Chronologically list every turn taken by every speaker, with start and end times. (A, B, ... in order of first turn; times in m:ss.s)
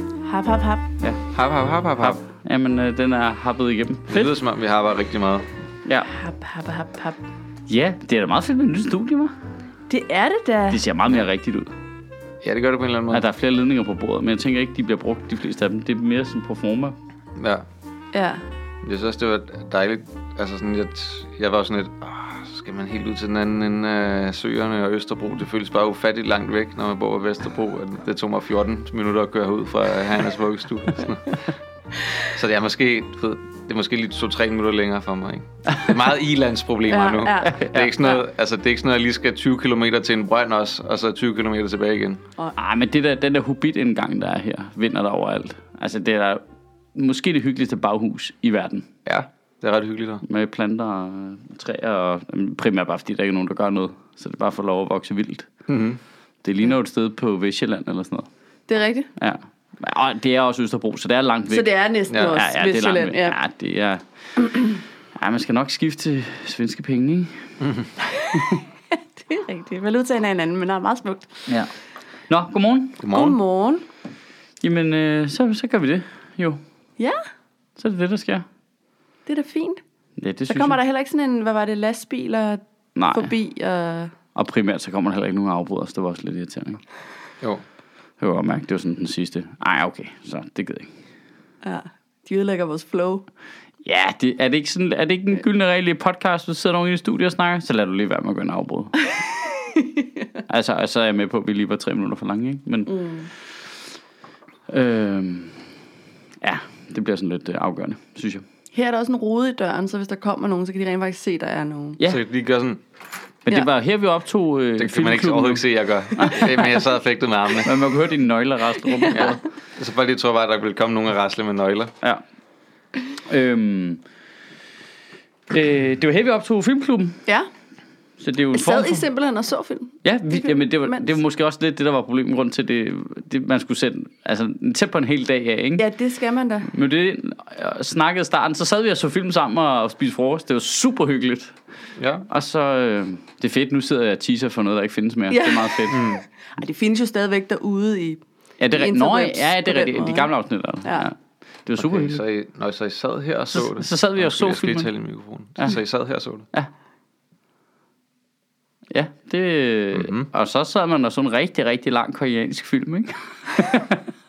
0:00.2-0:00.9 A
0:01.3-0:02.2 B
0:02.0-0:04.3 C
0:04.1-0:05.5 B
0:06.1-0:07.2 A
0:07.7-0:09.3 C
0:09.9-0:10.8 A
0:10.7-0:11.7 C
0:12.4-0:13.2 B
0:13.1-0:17.0 C
0:17.4-0:17.6 B
0:18.1-0:18.4 A
0:18.8-0:31.4 B
0:32.3-0:42.2 B
0:35.7-0:35.9 C
0:36.9-0:37.6 A
0:37.4-0:37.9 C
0:42.6-0:46.4 C
0:46.9-0:48.9 C
0:49.0-0:50.2 B
0:50.2-0:55.5 C
0:55.7-0:56.0 B
0:56.4-0:58.3 C
0:58.7-0:59.1 A
0:59.2-1:01.7 C
1:01.5-1:03.4 A
1:02.1-1:02.4 B
1:02.2-1:07.4 C
1:07.6-1:07.9 B
1:08.0-1:11.4 A
1:12.3-1:13.0 C
1:13.0-1:13.4 B
1:13.1-1:13.8 A
1:14.6-1:16.6 C
1:17.8-1:18.4 C
1:19.2-1:19.8 A
1:20.2-1:20.8 C
1:20.5-1:24.1 A
1:23.0-1:23.3 C
1:24.3-1:26.8 C
1:28.2-1:30.9 C
1:31.6-1:33.2 A
1:33.8-1:38.9 C
1:39.6-1:40.0 A
1:40.5-1:42.9 C
1:42.9-1:43.3 A
1:44.7-1:45.6 C
1:46.4-1:48.4 C
1:48.7-1:52.0 A
1:52.1-1:52.8 B
1:53.4-1:56.5 C
1:54.8-1:57.7 B
1:57.6-1:59.4 C
1:58.9-1:59.3 A
1:59.1-2:01.9 B
2:03.3-2:04.0 C
2:05.5-2:07.2 C
2:08.2-2:09.0 C
2:08.5-2:11.1 A
2:10.0-2:15.8 C
2:15.8-2:16.7 A
2:16.7-2:21.6 C
2:22.0-2:22.2 B
2:22.3-2:26.0 C
2:25.3-2:28.2 A
2:25.9-2:26.2 B
2:28.6-2:31.1 C
2:28.7-2:30.3 A
2:31.6-2:32.2 C
2:31.8-2:36.5 B
2:33.5-2:34.9 C
2:38.9-2:44.0 C
2:39.9-2:40.3 B